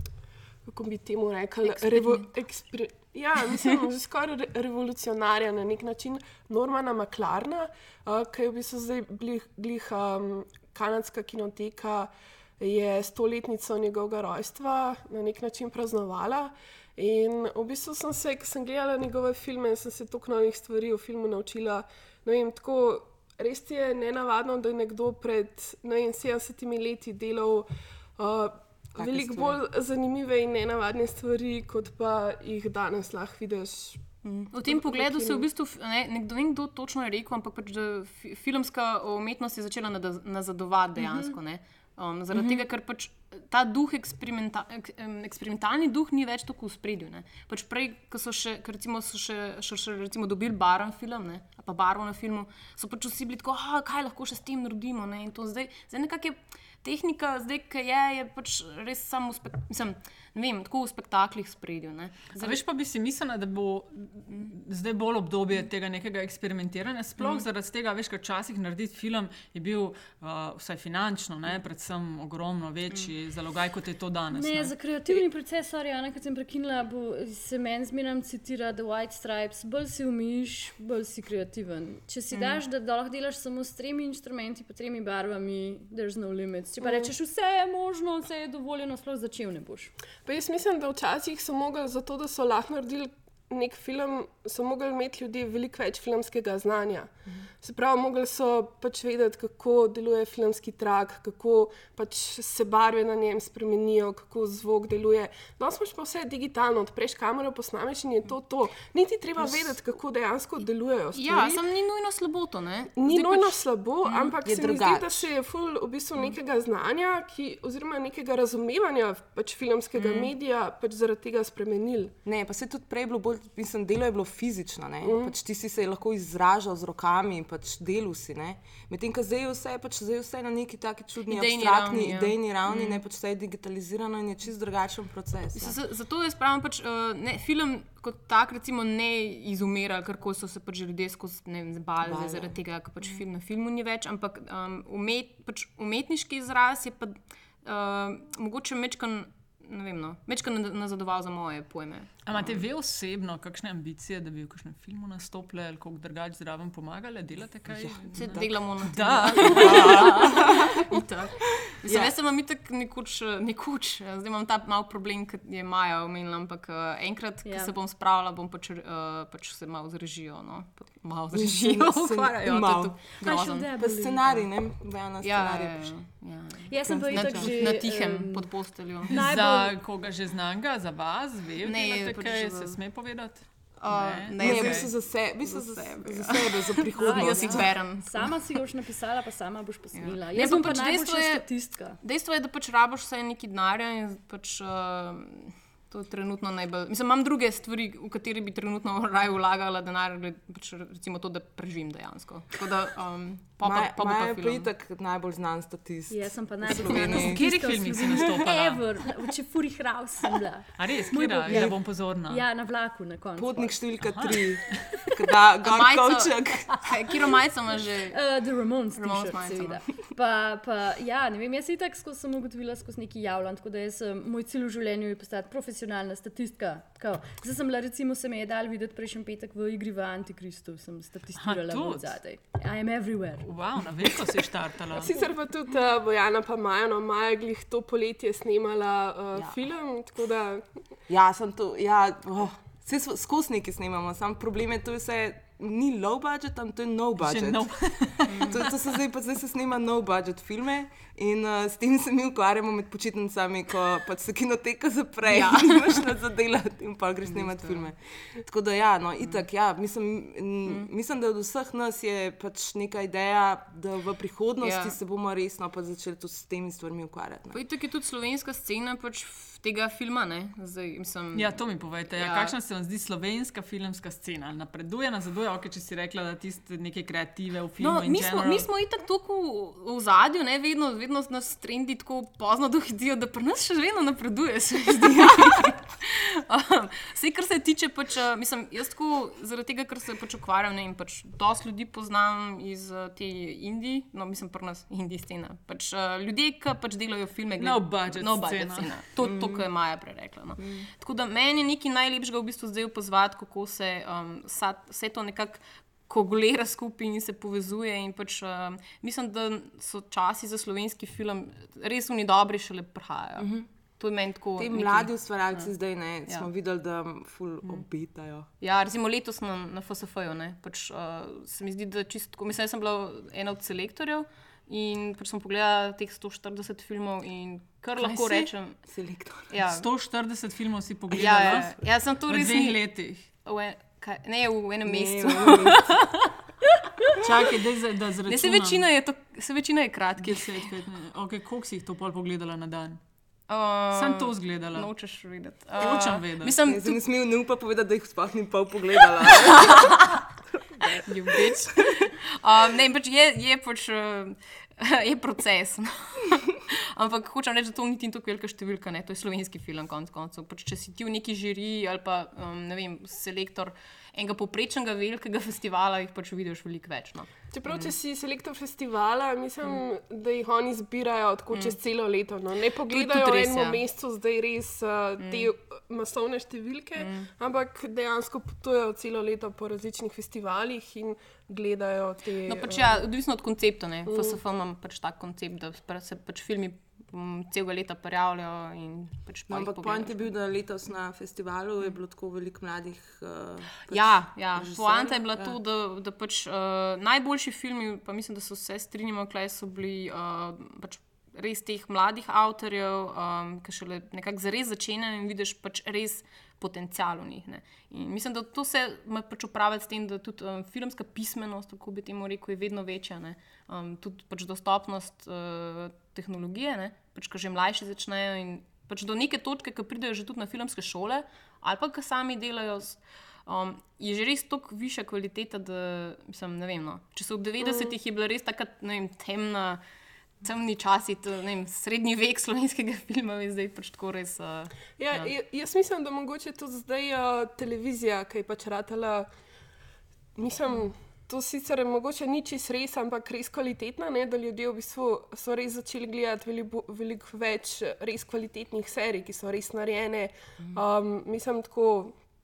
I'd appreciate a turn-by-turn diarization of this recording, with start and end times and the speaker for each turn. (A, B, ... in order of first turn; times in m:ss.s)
0:00.7-0:35.5 A
0:01.6-0:02.3 B
0:03.5-0:03.8 B
0:29.0-0:29.6 C
0:34.2-1:02.6 B
0:41.0-0:41.4 D
1:02.4-1:14.7 E
1:14.3-1:29.9 D
1:22.3-1:22.6 B
1:30.2-1:51.6 A
1:51.1-1:54.4 B
1:53.0-2:02.1 A
1:54.4-1:55.3 C
2:00.0-2:00.3 B
2:02.2-2:15.8 C
2:05.0-2:05.3 A
2:11.3-2:13.0 B
2:15.6-2:32.5 B
2:22.0-2:22.6 C
2:32.2-2:40.4 E
2:37.7-2:38.4 C
2:38.1-2:53.7 B
2:39.5-2:40.0 D
2:39.5-2:40.8 C
2:41.8-2:42.1 C
2:47.4-2:47.7 D
2:51.3-2:53.0 C
2:53.2-2:54.4 D
2:53.8-2:55.9 C
2:55.2-2:59.2 B
2:56.7-2:59.8 D
2:56.8-2:57.8 C
2:59.1-3:04.9 E
3:01.6-3:02.8 B
3:03.8-3:08.3 B
3:04.4-3:07.8 C
3:07.0-3:12.0 D
3:10.0-3:24.7 B
3:23.6-3:27.4 C
3:26.1-3:33.8 D
3:27.0-3:28.8 E
3:30.8-3:32.4 E
3:33.4-3:36.9 C
3:34.0-3:34.4 E
3:35.6-3:38.3 B
3:38.1-3:53.5 D
3:39.0-3:40.0 B
3:51.4-3:52.2 E
3:53.4-3:55.1 E
3:54.9-4:00.6 A
4:01.1-4:27.6 C
4:07.2-4:08.7 E
4:15.3-4:16.1 B
4:17.3-4:17.9 B
4:24.6-4:25.0 B
4:27.5-4:31.6 B
4:31.3-4:38.7 E
4:32.1-4:32.6 B
4:37.8-5:15.7 B
4:57.6-4:58.9 E
4:59.2-4:59.6 C
5:00.6-5:00.9 C
5:13.4-5:13.7 C
5:14.6-5:18.5 C
5:18.6-5:28.8 B
5:28.0-5:28.5 E
5:28.9-5:29.5 C
5:29.5-5:29.9 B
5:29.6-5:33.3 E
5:31.1-5:36.2 B
5:34.9-5:35.9 C
5:37.2-5:38.8 E
5:38.3-5:40.7 B
5:40.2-5:43.0 E
5:43.5-5:47.0 B
5:43.9-5:44.9 E
5:45.8-5:46.5 E
5:46.6-5:52.1 C
5:49.5-5:50.0 B
5:51.0-6:07.9 B
6:07.5-6:23.0 A
6:12.9-6:13.8 B
6:15.2-6:15.5 B
6:17.0-6:17.3 B
6:22.4-6:30.3 B
6:24.1-6:24.4 A
6:29.5-6:35.6 C
6:33.9-7:09.8 B
7:07.6-7:07.9 A
7:10.4-7:15.3 B
7:15.0-7:19.3 A
7:20.4-7:32.2 A